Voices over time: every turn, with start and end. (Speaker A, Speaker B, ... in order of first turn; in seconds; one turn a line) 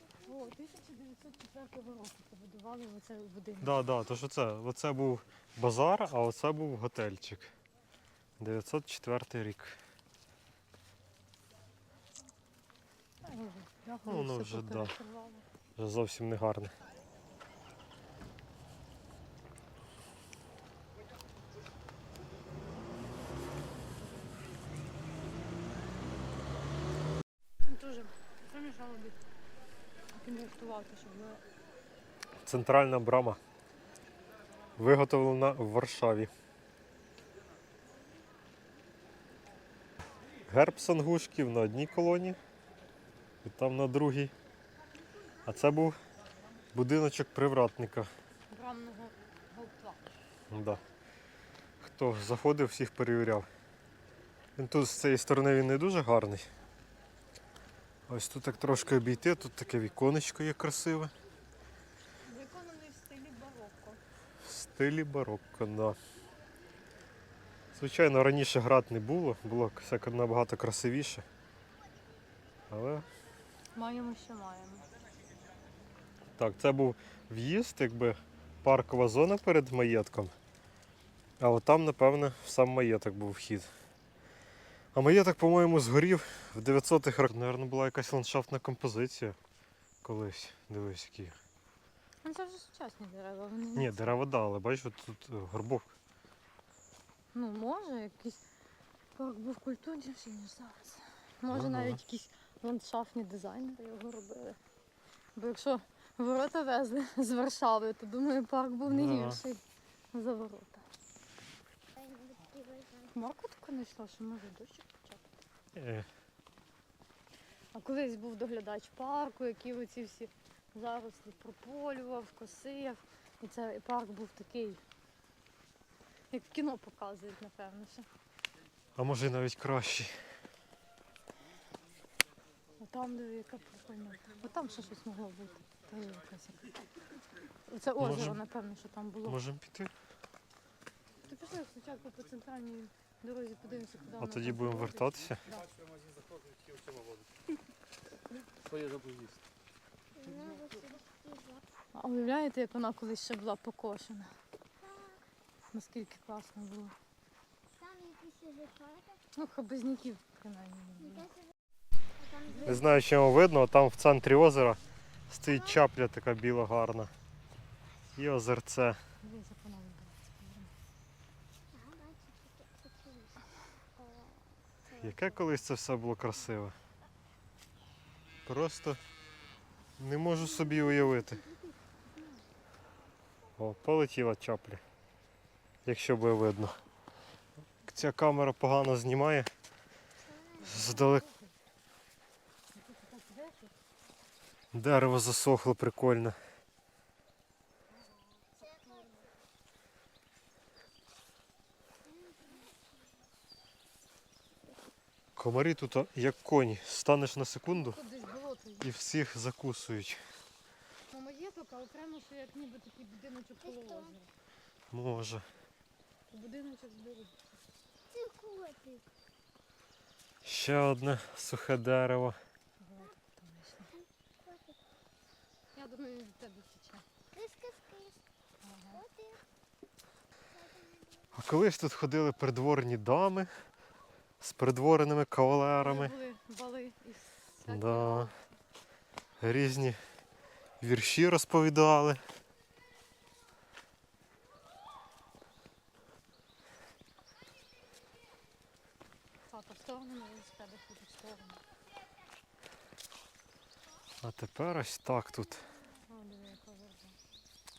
Speaker A: 0.2-3.9
Speaker B: 3.6-7.5
Speaker B: 8.4-9.8
Speaker A: 13.2-15.5
Speaker B: 14.0-14.9
Speaker B: 15.8-16.8
Speaker A: 27.6-29.2
Speaker A: 30.1-31.4
Speaker B: 32.5-33.4
Speaker B: 34.8-36.3
Speaker B: 40.5-42.4
Speaker B: 43.4-44.3
Speaker B: 45.5-46.0
Speaker B: 46.7-48.1
Speaker A: 48.5-50.1
Speaker B: 50.5-50.8
Speaker B: 51.8-53.5
Speaker B: 54.6-56.5
Speaker B: 58.1-61.1
Speaker A: 62.2-64.0
Speaker B: 64.4-66.0
Speaker B: 67.7-71.2
Speaker B: 72.7-73.1
Speaker A: 73.8-74.9
Speaker B: 76.4-80.3
Speaker B: 81.4-83.7
Speaker B: 84.9-89.4
Speaker B: 90.0-91.4
Speaker A: 92.2-94.0
Speaker B: 93.8-95.9
Speaker A: 97.3-98.4
Speaker A: 99.2-104.6
Speaker B: 101.5-102.0
Speaker A: 105.4-109.6
Speaker B: 108.8-109.4
Speaker A: 110.1-110.9
Speaker C: 112.0-113.1
Speaker A: 113.1-115.3
Speaker B: 115.8-116.1
Speaker A: 117.7-124.8
Speaker A: 126.3-128.1
Speaker B: 129.0-130.1
Speaker A: 132.8-136.7
Speaker A: 137.7-139.4
Speaker B: 138.0-138.4
Speaker B: 139.2-139.9
Speaker A: 141.2-145.7
Speaker B: 144.2-145.5
Speaker B: 148.7-149.3
Speaker C: 150.2-151.6
Speaker A: 150.4-150.8
Speaker A: 151.9-154.3
Speaker A: 155.7-156.9
Speaker C: 157.8-159.2
Speaker A: 159.3-161.4
Speaker A: 162.5-162.9
Speaker B: 162.6-167.1
Speaker B: 168.2-169.0
Speaker A: 169.2-170.7
Speaker C: 171.7-173.5
Speaker B: 174.9-176.8
Speaker B: 178.5-179.0
Speaker B: 180.0-181.4
Speaker B: 183.6-184.8
Speaker B: 185.8-186.8
Speaker B: 187.8-189.5
Speaker A: 190.6-191.5
Speaker B: 190.6-191.3
Speaker A: 192.7-193.7
Speaker B: 194.7-196.4
Speaker B: 205.4-208.0
Speaker A: 207.7-208.9
Speaker B: 208.8-210.2
Speaker A: 211.1-214.3
Speaker C: 213.8-214.1
Speaker B: 214.9-215.5
Speaker A: 216.3-217.3
Speaker C: 218.1-219.1
Speaker B: 220.4-222.4
Speaker A: 222.8-223.9
Speaker C: 224.0-224.8
Speaker A: 225.7-227.1
Speaker C: 227.3-228.2
Speaker A: 228.6-229.0
Speaker C: 229.0-229.4
Speaker B: 231.3-233.5
Speaker B: 234.4-236.2
Speaker A: 235.8-238.3
Speaker B: 237.7-238.3
Speaker B: 239.4-240.0
Speaker B: 240.8-242.2
Speaker A: 249.5-251.6
Speaker B: 254.2-255.7
Speaker A: 256.0-257.2